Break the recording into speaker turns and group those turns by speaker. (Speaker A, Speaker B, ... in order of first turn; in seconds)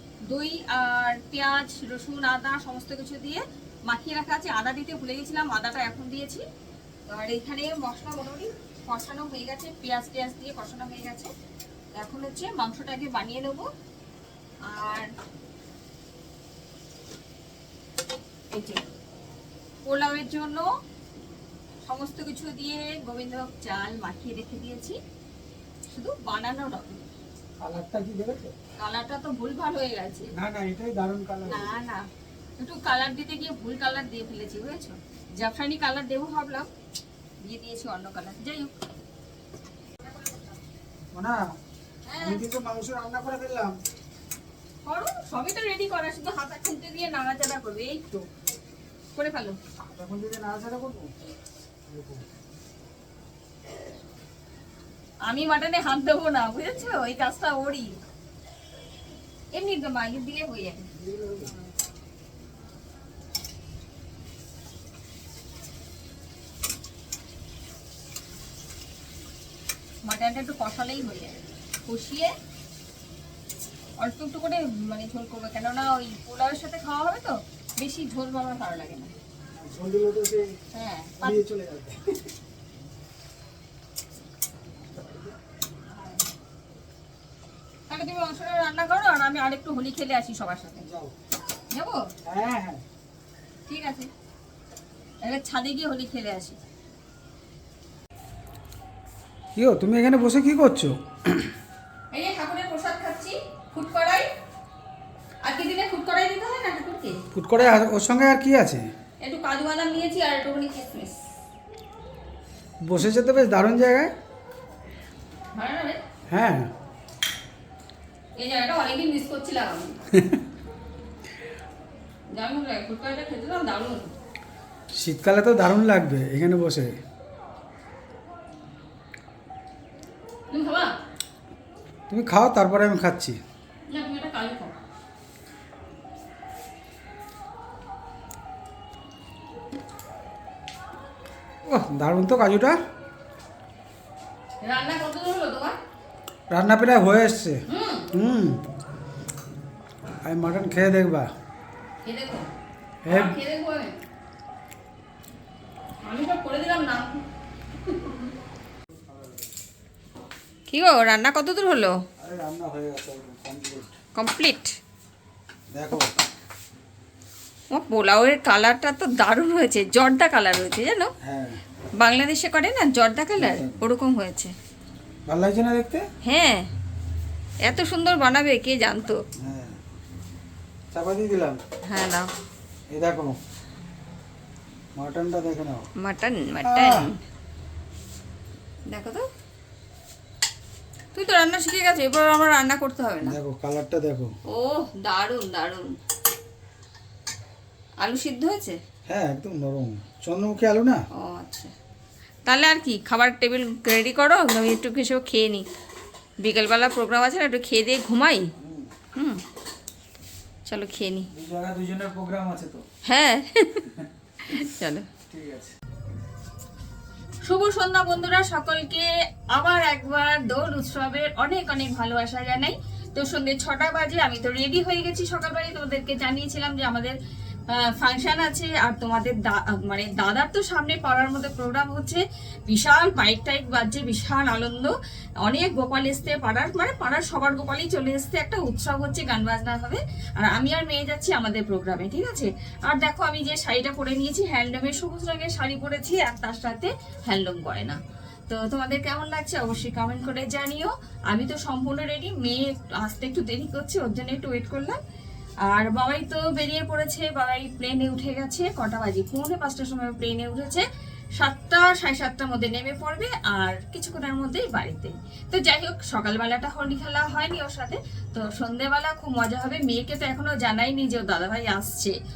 Speaker A: 0.3-6.4, 7.1-11.3, 12.0-13.7, 14.7-15.1, 18.5-18.8, 19.8-20.7, 21.9-25.0, 25.9-27.0, 28.8-30.3, 31.5-32.1, 32.6-36.7, 37.4-38.7, 42.1-42.4, 44.9-48.1, 49.1-49.6, 55.2-57.9, 59.5-60.9, 70.0-72.3, 74.0-79.1, 80.7-81.4, 87.9-90.9, 91.7-92.1, 93.7-94.1, 95.2-96.6, 102.1-104.3, 105.4-107.2, 109.2-111.2, 115.5-116.0, 118.4-120.0, 122.3-124.1, 130.5-130.9, 133.9-134.8, 144.6-145.8, 147.7-148.1, 152.1-152.5, 153.1-154.0, 156.0-157.2, 160.7-162.0, 164.2-164.8, 167.7-171.1, 172.0-174.5, 176.2-176.7, 177.7-179.2, 181.9-182.3, 186.0-187.2, 188.9-189.3, 191.2-193.4, 194.5-195.9, 198.0-198.8, 201.2-201.7, 202.5-205.7, 206.4-208.5, 209.2-209.4, 210.7-211.3, 213.1-213.9, 214.5-215.1, 217.5-227.2, 227.7-234.9, 235.4-255.0, 255.7-260.9, 261.4-272.1
Speaker B: 27.6-28.6, 30.4-31.7, 41.1-41.5, 42.2-43.8, 49.8-51.1, 51.9-52.2, 60.9-61.5, 79.6-80.5, 81.2-82.1, 90.8-91.2, 92.3-92.8, 99.6-101.5, 107.3-108.8, 112.8-114.1, 116.3-116.7, 124.9-126.9, 132.1-133.4, 141.7-142.8, 146.5-148.6, 150.2-151.3, 153.1-153.4, 159.1-159.4, 162.2-163.9, 165.7-166.1, 171.2-171.6, 173.4-173.8, 175.3-176.1, 179.4-179.8, 180.9-181.6, 182.9-183.4, 184.9-185.9, 186.7-187.1, 193.2-194.3, 199.1-201.0, 208.6-208.9, 211.3-212.8, 214.0-214.6, 215.3-215.7